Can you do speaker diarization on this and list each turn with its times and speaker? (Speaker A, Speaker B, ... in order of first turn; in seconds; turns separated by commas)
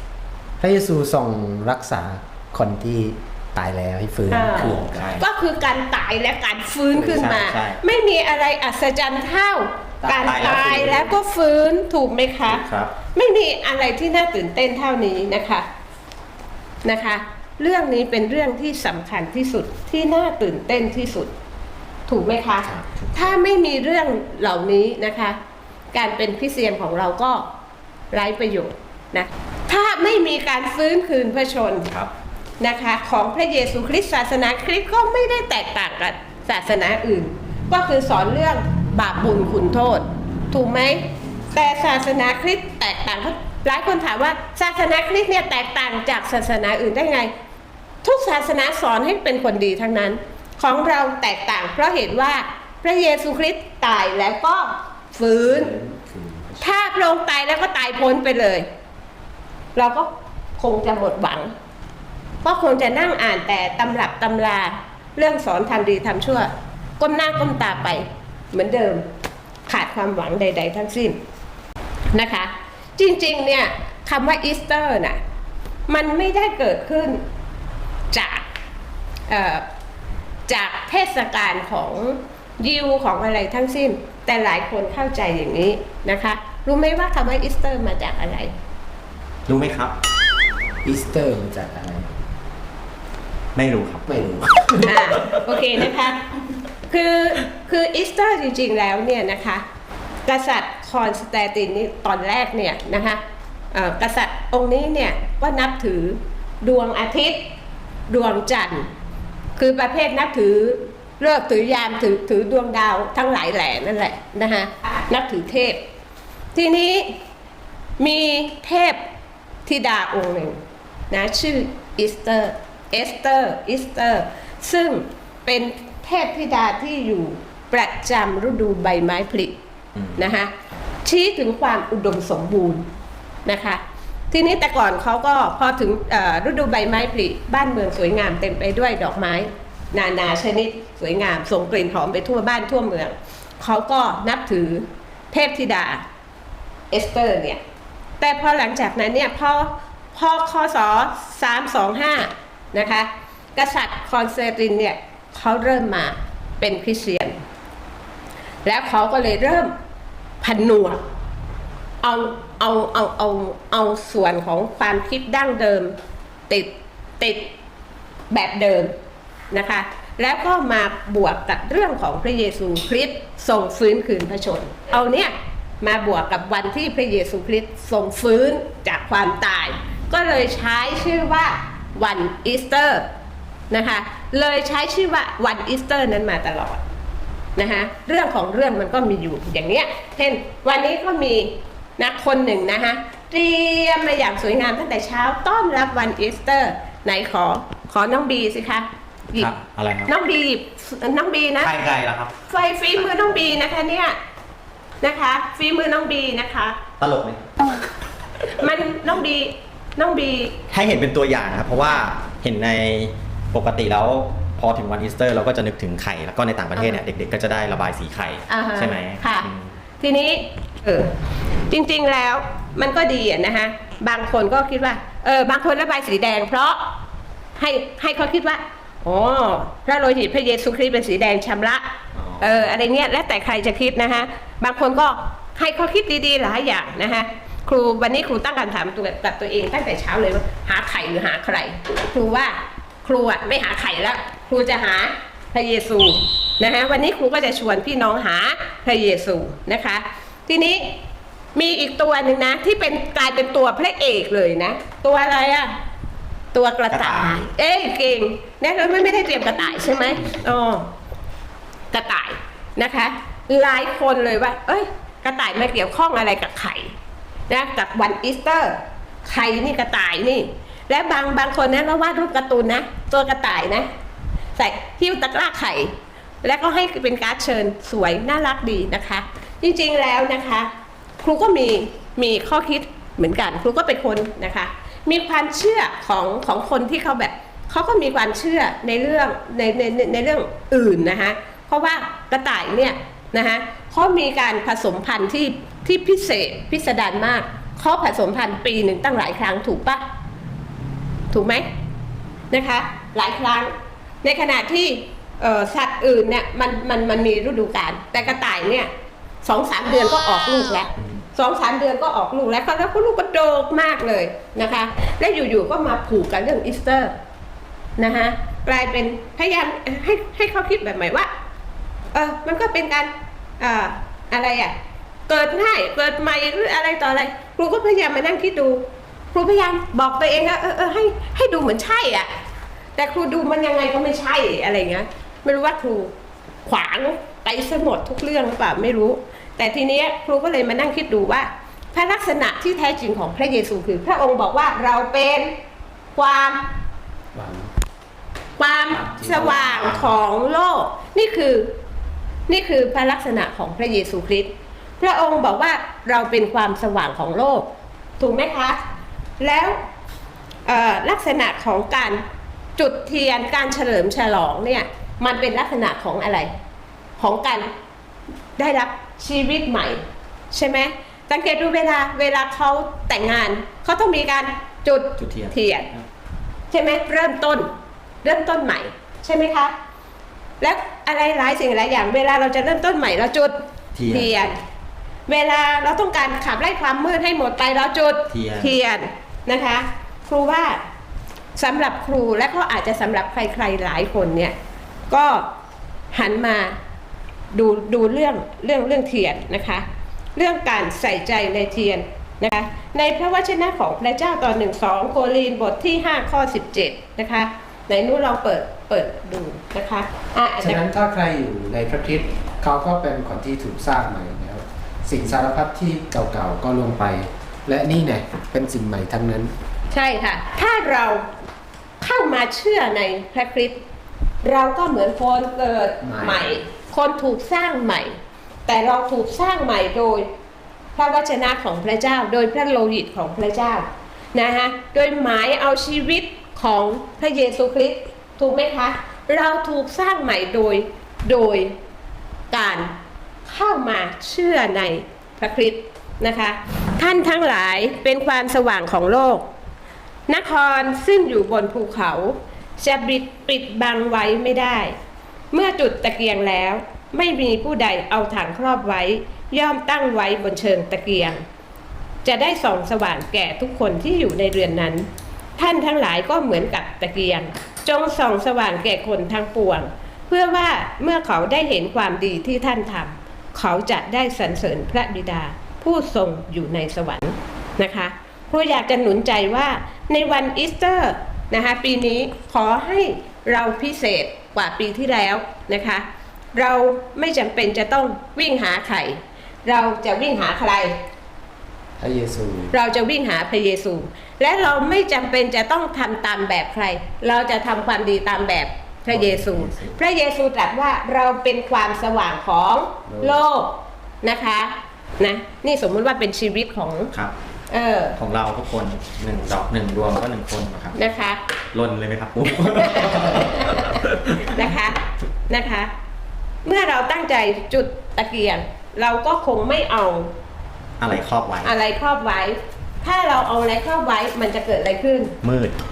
Speaker A: 0.6-5.0, Speaker B: 4.3-15.7, Speaker C: 4.5-5.2, Speaker C: 6.9-7.8, Speaker A: 10.0-10.9, Speaker C: 10.2-11.1, Speaker C: 12.5-12.9, Speaker B: 16.9-21.3, Speaker B: 22.1-25.4, Speaker B: 25.9-27.5, Speaker B: 28.1-31.9, Speaker B: 32.6-47.3, Speaker B: 48.0-55.7, Speaker A: 55.4-56.6, Speaker B: 56.6-58.7, Speaker B: 59.8-61.5, Speaker B: 62.4-69.0, Speaker B: 69.7-71.2, Speaker B: 72.1-75.2, Speaker B: 75.9-77.2, Speaker B: 78.1-78.5, Speaker B: 79.3-79.7, Speaker B: 80.5-88.5, Speaker C: 89.5-89.9, Speaker A: 90.8-92.1, Speaker C: 93.6-94.1, Speaker A: 94.1-95.1, Speaker B: 94.8-96.2, Speaker B: 96.9-99.6, Speaker B: 100.3-103.2, Speaker B: 103.7-107.4, Speaker B: 108.1-108.9, Speaker B: 109.6-115.8, Speaker B: 116.5-117.2, Speaker B: 118.0-119.0, Speaker B: 119.7-120.6, Speaker B: 121.1-129.6, Speaker B: 130.2-130.5, Speaker B: 131.1-132.8, Speaker B: 133.5-146.0, Speaker B: 146.9-147.6, Speaker B: 148.2-157.3, Speaker B: 158.6-159.7, Speaker B: 160.4-161.0, Speaker B: 162.0-166.0, Speaker B: 166.5-167.5, Speaker B: 168.3-168.9, Speaker B: 169.5-183.1, Speaker B: 183.7-186.8, Speaker B: 187.6-199.5, Speaker C: 199.4-200.1, Speaker B: 200.1-201.7, Speaker C: 201.6-202.4, Speaker B: 202.5-204.2, Speaker B: 205.0-206.8, Speaker C: 207.0-207.4, Speaker B: 208.6-210.6, Speaker C: 210.7-219.7, Speaker B: 216.8-217.0, Speaker B: 218.5-219.5, Speaker B: 220.0-221.2, Speaker B: 221.7-226.9, Speaker B: 227.6-231.9, Speaker C: 232.2-232.7, Speaker B: 232.4-251.0, Speaker B: 251.6-255.7, Speaker B: 256.5-260.9, Speaker C: 256.9-257.4, Speaker B: 261.9-266.9, Speaker B: 267.5-273.9, Speaker B: 274.6-300.0, Speaker B: 301.3-301.6, Speaker B: 302.5-303.7, Speaker B: 304.2-308.9, Speaker B: 309.4-317.1, Speaker B: 318.0-321.3, Speaker B: 322.1-324.8, Speaker B: 325.3-332.3, Speaker B: 333.0-336.1, Speaker B: 336.6-345.5, Speaker B: 346.2-346.6, Speaker A: 347.3-347.7, Speaker B: 348.6-351.7, Speaker A: 348.9-350.1, Speaker C: 349.5-349.9, Speaker B: 352.5-357.7, Speaker B: 358.2-358.8, Speaker B: 359.4-359.8, Speaker B: 360.7-362.2, Speaker B: 362.8-366.5, Speaker B: 367.2-367.7, Speaker B: 368.6-375.9, Speaker C: 375.2-375.5, Speaker B: 376.7-377.7, Speaker B: 378.2-379.7, Speaker B: 380.6-384.6, Speaker C: 383.9-384.5, Speaker B: 385.3-390.8, Speaker C: 388.3-388.8, Speaker B: 391.6-394.6, Speaker B: 395.1-395.5, Speaker B: 396.1-396.8, Speaker B: 397.5-399.8, Speaker B: 400.4-410.8, Speaker A: 410.6-419.5, Speaker B: 419.9-421.3, Speaker B: 422.0-423.8, Speaker B: 424.4-428.1, Speaker A: 426.0-426.6, Speaker B: 428.7-430.3, Speaker B: 431.0-441.8, Speaker B: 442.5-442.9, Speaker B: 443.5-449.4, Speaker B: 450.3-454.9, Speaker B: 455.5-461.4, Speaker B: 462.2-486.0, Speaker B: 486.6-491.0, Speaker A: 492.0-492.7, Speaker B: 492.7-507.1, Speaker C: 499.1-499.9, Speaker A: 503.1-503.4, Speaker B: 507.7-508.2, Speaker C: 508.2-511.0, Speaker B: 510.9-511.4, Speaker C: 511.7-514.5, Speaker B: 512.8-515.9, Speaker B: 516.6-520.3, Speaker C: 521.0-521.7, Speaker B: 521.6-525.4, Speaker C: 525.4-525.8